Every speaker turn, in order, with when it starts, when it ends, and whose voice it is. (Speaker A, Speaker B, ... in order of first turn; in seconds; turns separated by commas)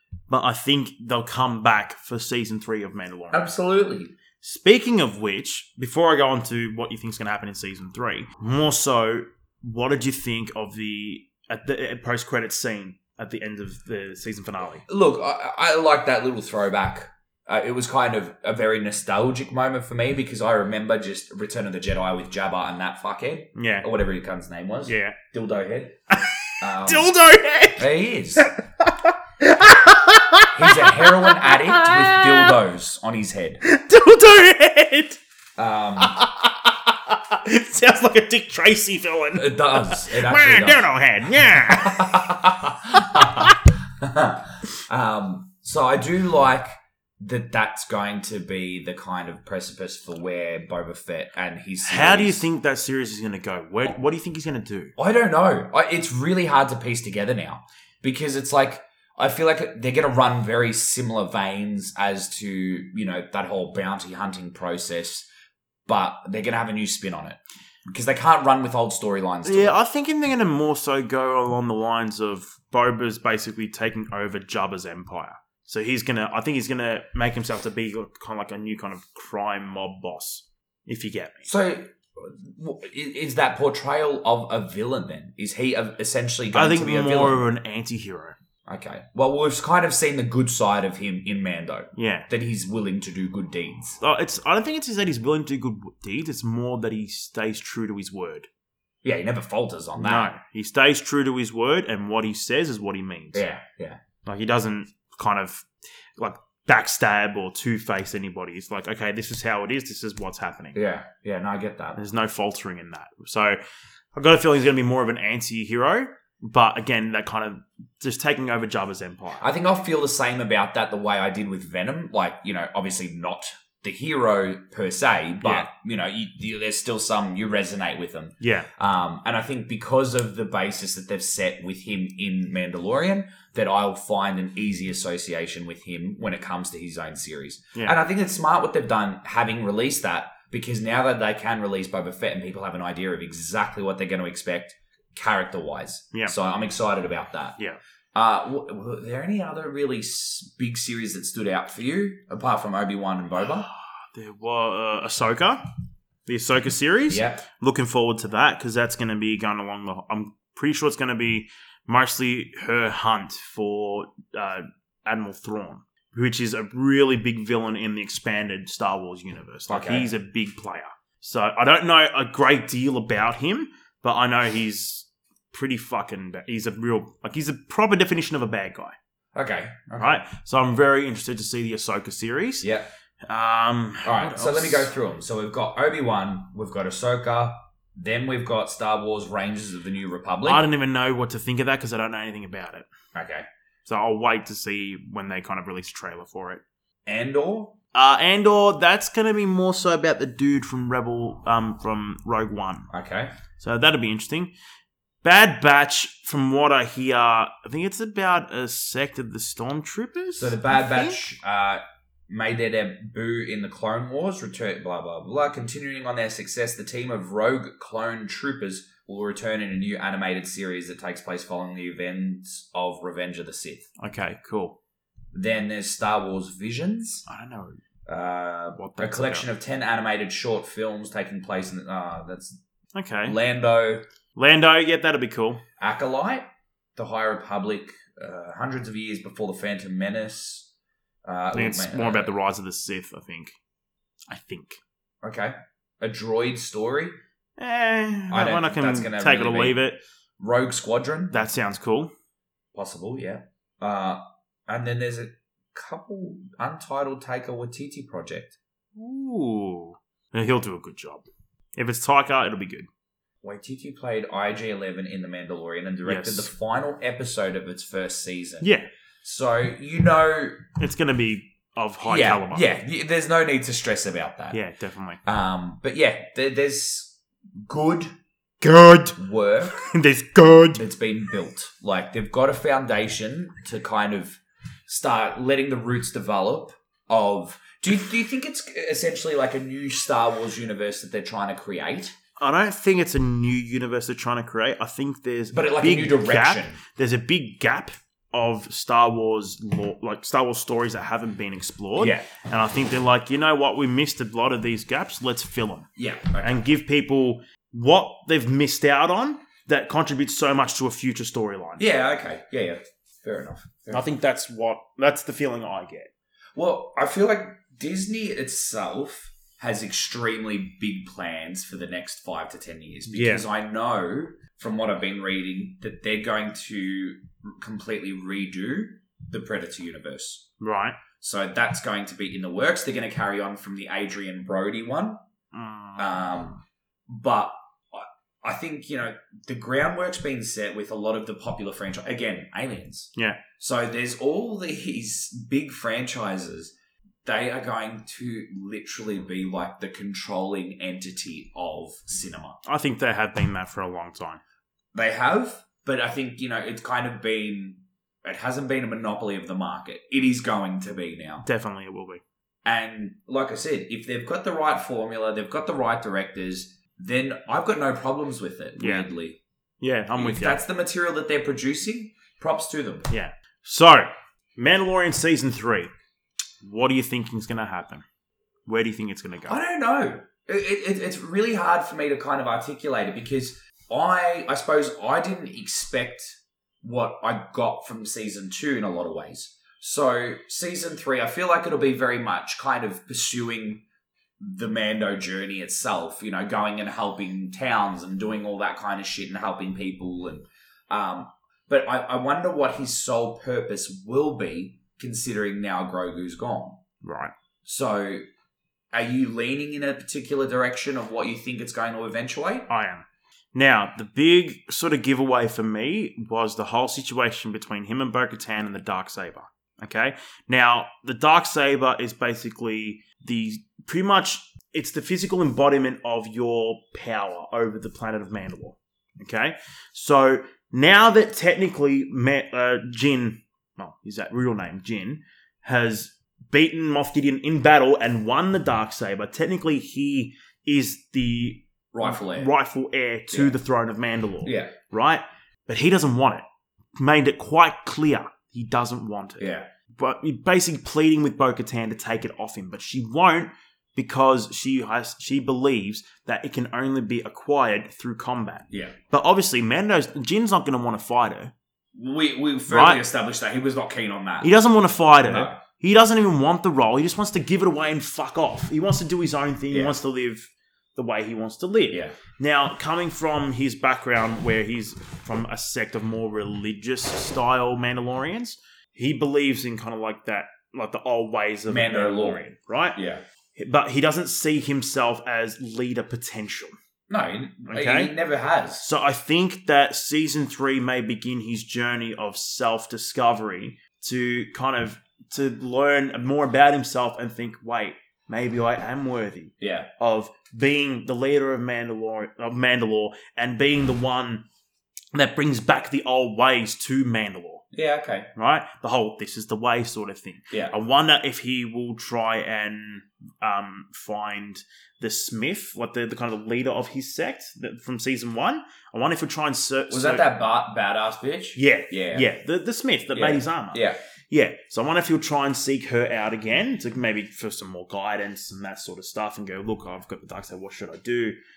Speaker A: 0.3-3.5, Speaker B: 3.3-4.1, Speaker A: 4.4-14.8, Speaker B: 14.9-26.0, Speaker A: 23.6-23.9, Speaker A: 24.9-25.2, Speaker A: 26.1-32.6, Speaker B: 26.6-27.1, Speaker B: 27.8-28.5, Speaker B: 30.5-33.6, Speaker A: 33.6-35.2, Speaker B: 35.6-36.2, Speaker A: 36.0-43.6, Speaker B: 39.4-40.9, Speaker B: 41.4-52.5, Speaker A: 51.8-54.9, Speaker B: 55.0-65.3, Speaker B: 65.9-69.8, Speaker A: 69.4-81.5, Speaker B: 81.5-87.4, Speaker A: 86.5-88.4, Speaker B: 88.7-94.0, Speaker A: 92.0-92.3, Speaker A: 94.0-98.5, Speaker B: 99.0-100.3, Speaker A: 100.0-103.5, Speaker B: 103.3-104.0, Speaker A: 104.2-110.8, Speaker B: 110.7-112.0, Speaker A: 112.0-113.6, Speaker A: 114.1-119.4, Speaker B: 119.4-147.6, Speaker A: 125.4-125.7, Speaker A: 128.4-128.7, Speaker B: 148.1-153.7, Speaker A: 153.4-155.6, Speaker A: 156.3-178.9, Speaker B: 157.1-157.4, Speaker B: 169.7-170.1, Speaker B: 179.3-180.2, Speaker A: 180.0-182.7, Speaker B: 182.6-182.9, Speaker A: 183.2-184.9, Speaker B: 184.0-190.6, Speaker A: 190.4-192.9, Speaker B: 193.1-193.5, Speaker A: 193.8-196.6, Speaker B: 197.1-197.8, Speaker A: 197.9-202.9, Speaker B: 202.9-203.3, Speaker A: 203.6-204.5, Speaker A: 205.2-211.2, Speaker B: 210.4-223.9, Speaker A: 224.0-224.8, Speaker B: 225.3-227.2, Speaker A: 227.3-227.8, Speaker B: 228.1-232.6, Speaker A: 228.8-229.5, Speaker A: 232.9-233.4, Speaker B: 233.3-234.0, Speaker A: 234.4-235.6, Speaker B: 235.8-240.7, Speaker B: 241.2-242.3, Speaker A: 241.5-243.5, Speaker A: 244.3-244.8, Speaker B: 245.2-247.1, Speaker A: 247.6-250.0, Speaker B: 248.3-249.8, Speaker B: 250.4-251.3, Speaker A: 251.3-252.1, Speaker B: 252.7-258.6, Speaker A: 258.9-261.2, Speaker A: 261.8-262.9, Speaker B: 263.4-268.7, Speaker A: 266.1-266.5, Speaker A: 268.6-268.9, Speaker B: 269.2-270.8, Speaker A: 270.8-272.7, Speaker B: 272.0-274.6, Speaker A: 274.5-275.2, Speaker B: 275.2-278.1, Speaker A: 278.6-279.2, Speaker B: 279.1-279.9, Speaker A: 279.7-280.8, Speaker B: 280.7-292.1, Speaker A: 292.4-305.9, Speaker B: 295.5-296.8, Speaker B: 302.0-302.3, Speaker B: 306.0-306.6, Speaker A: 306.4-311.8, Speaker B: 311.8-314.1, Speaker A: 313.9-316.1, Speaker B: 316.6-330.5, Speaker A: 323.1-323.4, Speaker A: 330.6-331.0, Speaker B: 331.2-335.2, Speaker A: 335.5-336.2, Speaker B: 336.0-346.7, Speaker A: 343.1-343.4, Speaker B: 347.2-352.6, Speaker A: 352.6-354.4, Speaker B: 354.9-361.4, Speaker A: 361.4-362.2, Speaker B: 362.6-369.4, Speaker A: 368.8-369.1, Speaker A: 369.8-370.6, Speaker B: 370.1-373.1, Speaker A: 373.1-375.9, Speaker A: 376.6-378.1, Speaker A: 378.6-379.6, Speaker B: 379.5-393.8, Speaker B: 394.4-406.8, Speaker A: 407.0-407.3, Speaker B: 407.6-408.2, Speaker B: 408.9-412.7, Speaker A: 412.7-446.4, Speaker B: 441.9-442.5, Speaker B: 444.4-444.7, Speaker A: 447.0-461.5, Speaker B: 449.4-449.7, Speaker B: 461.9-464.5, Speaker A: 462.7-463.0, Speaker A: 464.4-483.0, Speaker B: 465.2-465.6, Speaker B: 469.7-470.0, Speaker B: 481.7-483.2, Speaker A: 483.6-486.7, Speaker B: 487.1-488.8, Speaker A: 487.7-488.1, Speaker A: 488.8-504.4, Speaker B: 499.6-499.9, Speaker A: 505.1-507.6, Speaker B: 507.7-508.3, Speaker A: 508.4-520.3, Speaker B: 519.9-522.3, Speaker A: 521.5-531.4, Speaker B: 523.1-524.0